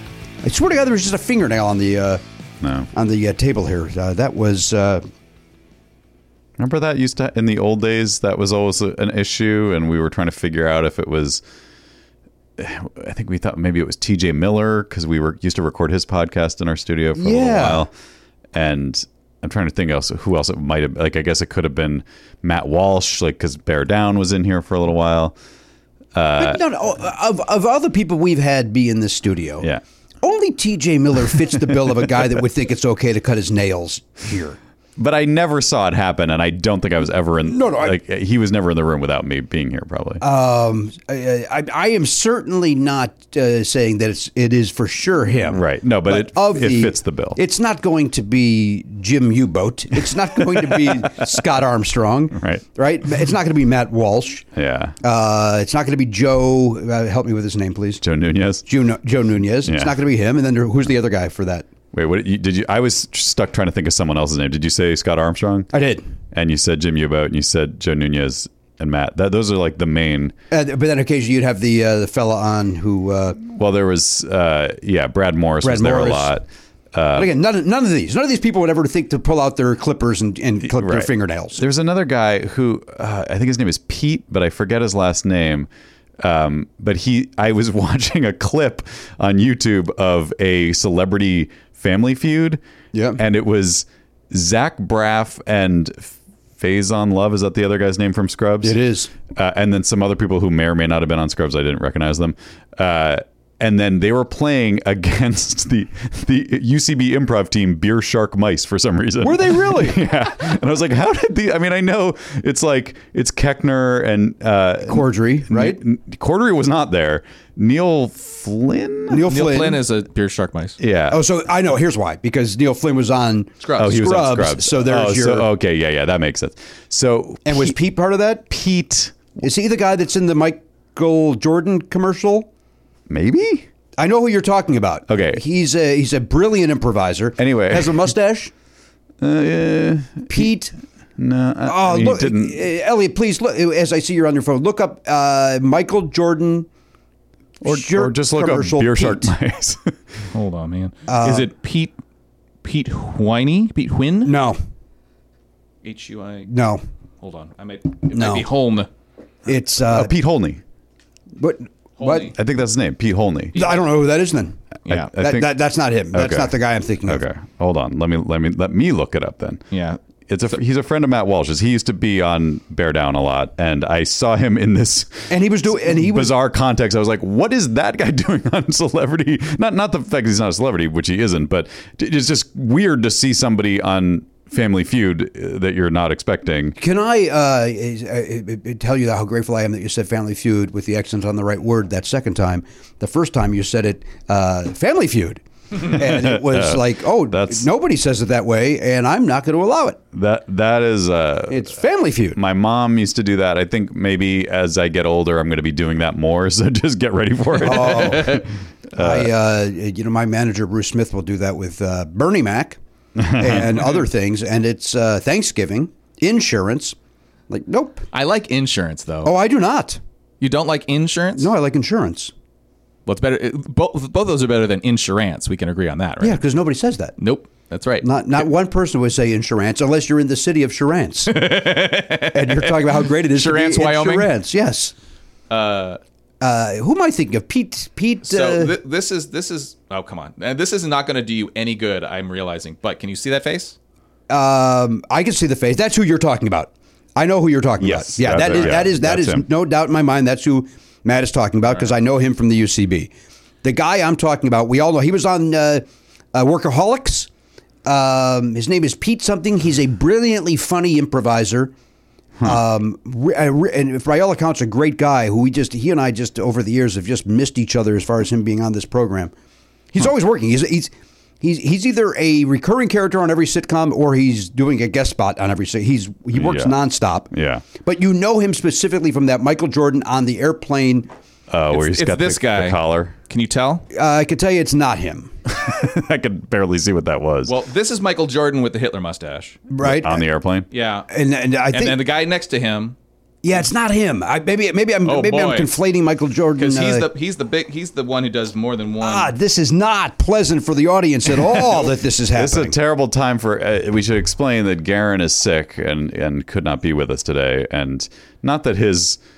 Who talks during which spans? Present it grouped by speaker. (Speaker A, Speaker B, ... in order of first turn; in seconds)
Speaker A: 0.4-2.2, 2.9-5.0, 17.1-17.9, 26.4-29.7, 30.2-34.6, 37.5-38.0, 40.2-54.5, 55.0-58.0, 58.6-61.7, 65.7-66.1, 70.5-73.4, 75.6-76.3, 77.2-81.6, 92.9-93.2, 98.6-99.1, 109.2-110.0, 114.8-115.8, 119.1-119.8, 121.1-125.5, 127.5-128.5, 129.4-132.5, 134.0-138.5, 140.3-140.7, 141.7-146.7, 147.6-149.3, 151.1-151.5, 154.2-154.6, 156.5-156.8, 158.1-158.5, 159.5-160.1, 161.4-162.3, 163.6-167.2, 175.3-176.4, 186.8-200.0, 201.5-202.4, 207.6-208.4, 209.0-212.8, 213.3-217.0, 217.5-218.0, 219.2-220.0, 221.4-222.3, 226.2-227.2, 228.0-231.5, 232.3-234.9, 236.4-238.8, 244.3-253.1, 253.6-257.3, 257.9-261.7, 262.4-269.3, 269.9-281.1, 283.9-285.3, 289.7-290.3, 291.1-292.0, 293.4-297.1, 299.0-302.8
Speaker B: 2.6-2.9, 6.6-11.4, 12.6-17.9, 18.5-25.4, 26.1-26.6, 35.0-40.2, 45.5-47.4, 52.4-52.6, 54.5-55.0, 58.0-58.7, 59.6-60.0, 61.9-65.7, 66.3-70.3, 73.4-77.3, 80.6-85.7, 86.2-92.6, 93.2-98.8, 99.3-119.2, 120.8-121.2, 123.8-127.8, 128.5-129.2, 133.1-133.7, 135.1-135.4, 137.4-138.1, 139.2-140.5, 141.2-142.7, 147.6-149.9, 159.8-160.6, 162.3-163.6, 164.9-165.5, 166.1-166.6, 167.1-169.6, 170.3-186.8, 196.1-197.7, 200.1-201.7, 202.3-209.3, 213.2-213.5, 247.8-249.5, 276.3-276.8, 277.3-277.6, 281.5-283.1, 285.5-287.6, 289.8-290.7, 302.4-309.2
Speaker C: 119.2-120.8, 123.6-124.0, 150.3-151.9, 152.6-154.3, 155.8-156.5, 157.2-158.9, 162.0-162.3, 163.6-163.8, 169.7-170.0, 208.0-208.4, 218.1-219.3, 220.4-221.5, 223.1-226.4, 227.2-228.4, 231.3-234.3, 235.5-236.0, 238.2-243.8, 281.7-283.9, 287.5-289.6, 290.7-291.1, 291.7-293.0, 295.1-295.8, 296.6-299.3